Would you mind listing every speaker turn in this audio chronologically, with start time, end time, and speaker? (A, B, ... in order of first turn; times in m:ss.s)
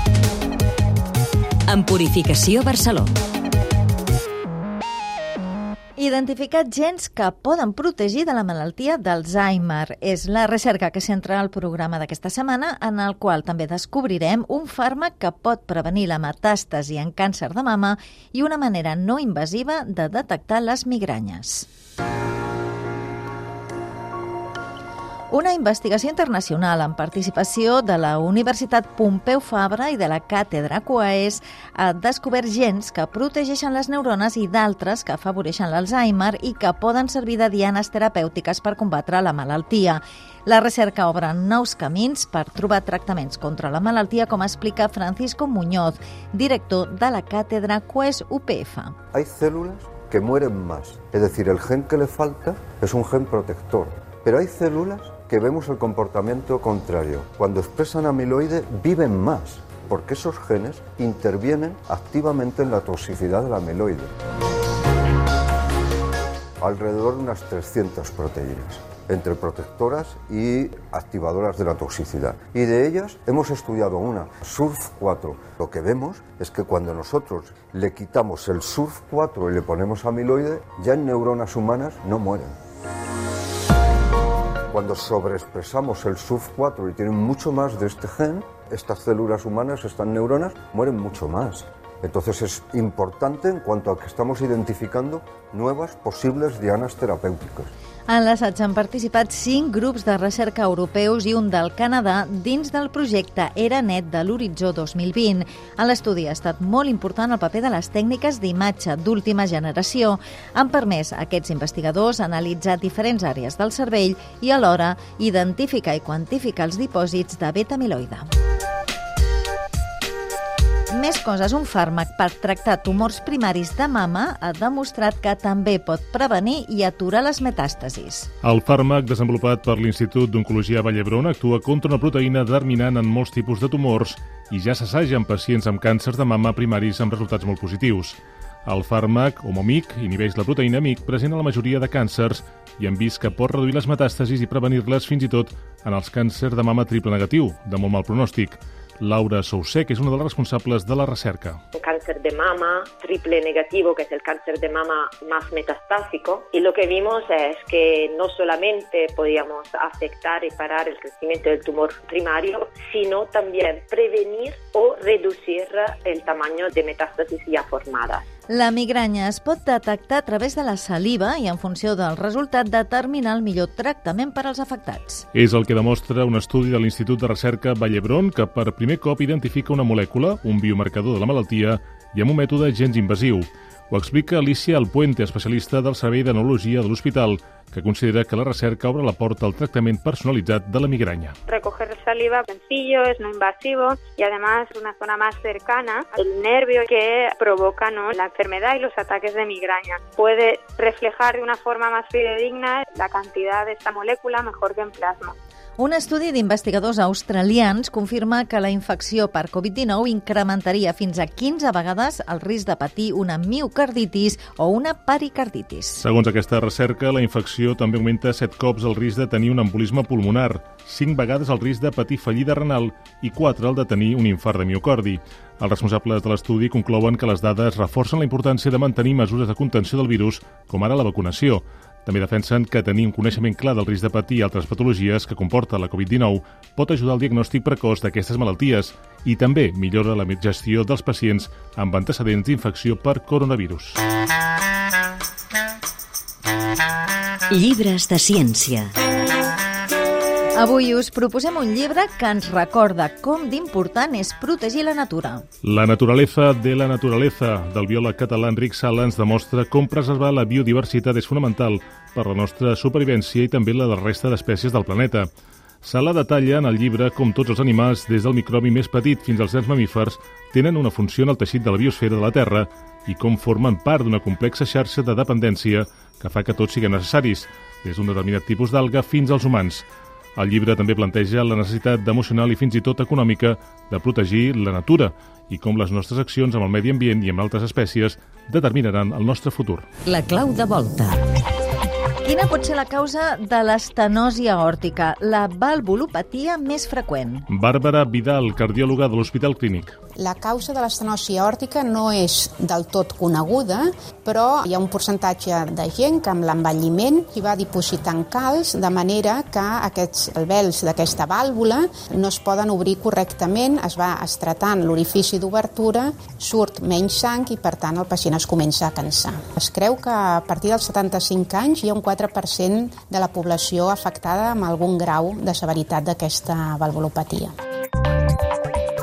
0:01.7-0:03.1 A
0:06.0-0:21.7 B
0:25.3-0:49.0 B
0:49.1-1:04.1 C
1:06.6-1:22.5 C
1:24.7-1:37.7 C
1:38.1-1:58.3 B
2:00.9-2:08.3 B
2:08.4-2:31.6 D
2:31.8-2:48.2 E
2:48.5-2:55.2 B
2:55.3-3:11.4 D
3:11.5-3:25.3 F
3:25.8-3:36.0 B
3:36.0-4:04.0 D
4:07.5-4:08.9 A
4:10.5-4:15.4 B
4:15.6-4:25.3 D
4:25.8-4:49.9 D
4:50.0-4:51.2 A
4:52.2-4:57.4 B
4:57.5-5:00.0 D
5:00.2-5:27.5 G